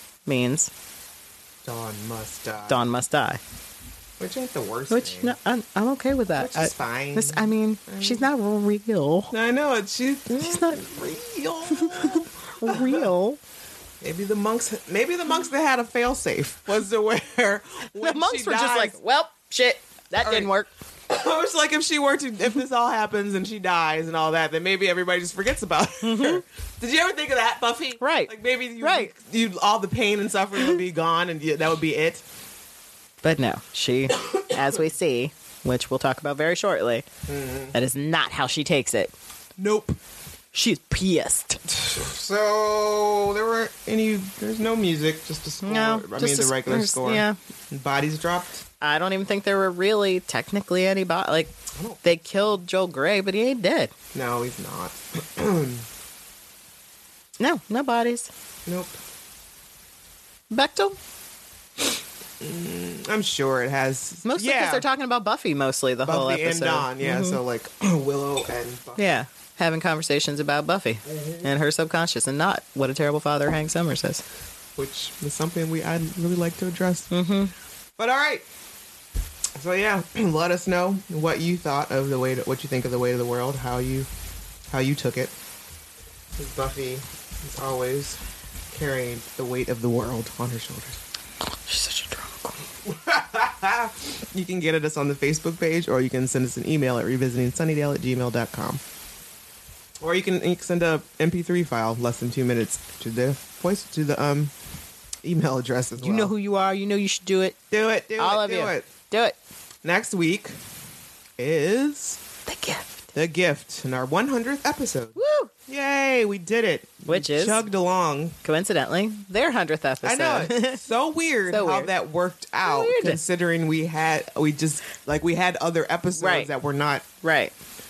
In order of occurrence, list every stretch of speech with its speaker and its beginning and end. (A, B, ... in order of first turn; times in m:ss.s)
0:00.2-0:00.7 A
0:01.6-0:02.9 B
0:02.7-0:03.4 A
0:04.2-0:05.3 B
0:04.9-0:09.3 A
0:06.4-0:08.3 B
0:09.3-0:13.0 B
0:10.4-0:10.8 A
0:11.7-0:13.4 A
0:14.0-0:19.0 B
0:18.0-0:20.7 A
0:20.2-0:20.5 B
0:21.1-0:32.2 B
0:26.0-0:26.4 A
0:28.0-0:29.1 A
0:33.2-0:37.0 A
0:34.1-0:34.7 B
0:37.3-0:37.7 B
0:37.7-0:39.1 A
0:39.6-0:40.0 B
0:40.5-0:41.6 A
0:41.7-0:48.6 B
0:45.6-0:47.4 A
0:48.8-0:53.9 A
0:51.7-0:52.0 B
0:54.1-0:55.8 B
0:57.4-0:58.3 A
0:58.6-0:59.0 B
1:00.5-1:01.0 A
1:02.4-1:04.8 B
1:04.2-1:07.4 A
1:06.0-1:09.1 B
1:09.0-1:14.2 A
1:11.0-1:11.5 B
1:14.8-1:17.1 B
1:17.1-1:17.5 A
1:18.0-1:18.4 B
1:19.6-1:24.1 B
1:24.7-1:25.3 B
1:26.4-1:28.2 B
1:28.7-1:31.0 B
1:31.6-1:32.6 A
1:32.8-1:38.8 B
1:40.0-1:44.5 B
1:45.2-1:46.3 B
1:46.0-1:47.6 A
1:47.7-1:48.9 B
1:48.2-1:49.4 A
1:49.8-1:50.6 B
1:51.4-1:52.2 B
1:52.4-1:53.0 A
1:53.1-1:58.4 B
1:55.2-1:55.5 A
1:57.0-1:57.6 A
1:58.4-2:00.8 A
2:00.0-2:07.0 B
2:01.5-2:01.9 A
2:02.6-2:03.2 A
2:06.2-2:06.5 A
2:07.2-2:07.5 A